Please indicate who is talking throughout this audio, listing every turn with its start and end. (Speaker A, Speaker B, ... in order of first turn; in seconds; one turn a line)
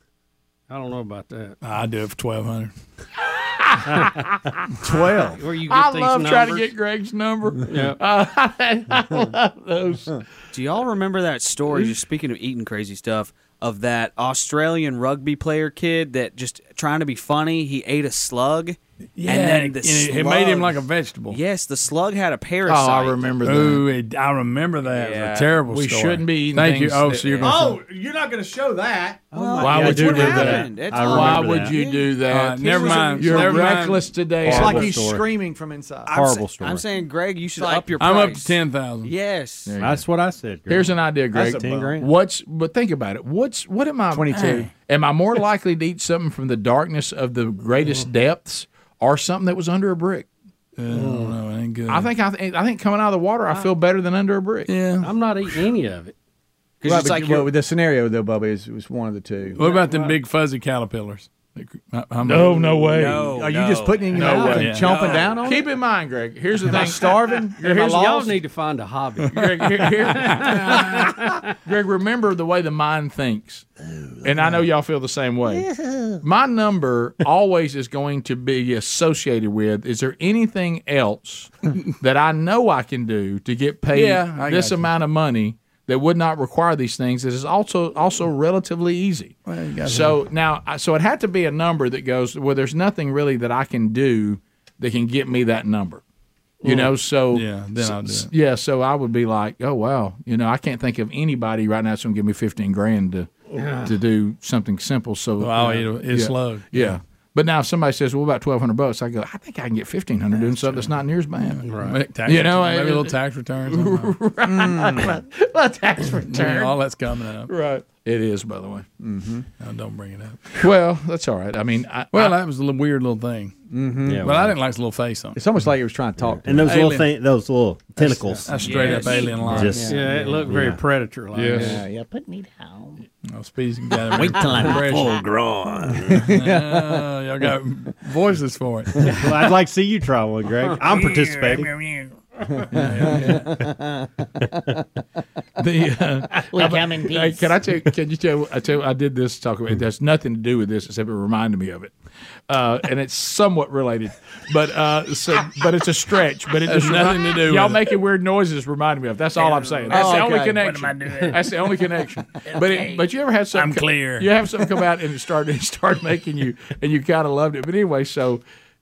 Speaker A: 0.7-1.6
Speaker B: 1.6-2.7
Speaker C: 3.4-4.5
Speaker D: 4.8-5.4
Speaker A: 5.4-6.7
Speaker C: 5.7-10.2
Speaker A: 7.7-8.0
Speaker E: 10.5-20.7
Speaker B: 19.2-21.4
Speaker D: 20.1-20.6
Speaker E: 21.3-23.3
Speaker C: 22.7-23.8
Speaker B: 23.4-27.8
Speaker E: 24.8-25.6
Speaker C: 25.7-27.5
Speaker D: 27.4-30.7
Speaker F: 29.3-31.8
Speaker E: 29.4-32.0
Speaker C: 29.6-35.0
Speaker B: 32.2-34.1
Speaker E: 32.7-33.6
Speaker D: 33.2-33.7
Speaker F: 34.4-35.3
Speaker D: 34.4-36.4
Speaker F: 36.1-36.9
Speaker E: 36.1-39.8
Speaker D: 37.6-38.3
Speaker B: 38.0-39.1
Speaker C: 39.7-40.0
Speaker F: 39.8-42.1
Speaker C: 40.7-50.3
Speaker D: 41.3-42.0
Speaker D: 44.1-44.7
Speaker B: 44.3-44.7
Speaker B: 50.8-52.1
Speaker A: 50.9-51.4
Speaker C: 51.9-54.7
Speaker B: 54.7-55.1
Speaker A: 55.0-56.1
Speaker E: 56.8-57.5
Speaker D: 56.9-59.6
Speaker B: 59.5-63.0
Speaker A: 59.6-60.2
Speaker C: 62.2-63.3
Speaker E: 62.9-65.5
Speaker D: 63.1-65.7
Speaker C: 64.1-68.4
Speaker B: 64.5-65.0
Speaker D: 66.7-68.1
Speaker A: 67.6-69.5
Speaker C: 69.3-73.7
Speaker A: 70.8-71.2
Speaker C: 74.2-75.7
Speaker C: 76.2-96.0
Speaker B: 83.9-84.9
Speaker B: 89.5-90.2
Speaker A: 96.6-96.9
Speaker C: 96.6-103.3
Speaker B: 97.3-98.3
Speaker A: 103.5-104.0
Speaker C: 103.8-111.7
Speaker B: 105.4-107.0
Speaker B: 111.4-114.2
Speaker A: 111.7-112.0
Speaker C: 112.2-113.2
Speaker C: 113.7-116.8
Speaker D: 114.5-115.2
Speaker B: 116.2-117.5
Speaker C: 117.5-118.9
Speaker D: 119.0-119.5
Speaker B: 119.6-120.7
Speaker C: 120.5-122.3
Speaker B: 122.1-123.5
Speaker D: 123.7-124.3
Speaker F: 124.1-124.5
Speaker B: 124.2-125.4
Speaker D: 125.4-126.7
Speaker F: 126.4-128.7
Speaker B: 126.6-127.1
Speaker B: 128.0-129.9
Speaker A: 128.3-129.1
Speaker E: 128.5-129.5
Speaker F: 129.4-130.8
Speaker D: 129.5-130.3
Speaker A: 129.8-131.8
Speaker B: 131.4-131.7
Speaker D: 131.5-132.9
Speaker B: 133.2-135.2
Speaker F: 134.1-136.3
Speaker B: 136.1-139.1
Speaker D: 136.1-136.8
Speaker F: 139.0-141.8
Speaker B: 142.7-143.7
Speaker C: 145.6-151.9
Speaker D: 146.5-147.5
Speaker C: 152.5-168.4
Speaker B: 156.7-157.9
Speaker B: 159.6-161.3
Speaker D: 159.9-160.6
Speaker B: 162.6-163.0
Speaker B: 163.5-164.3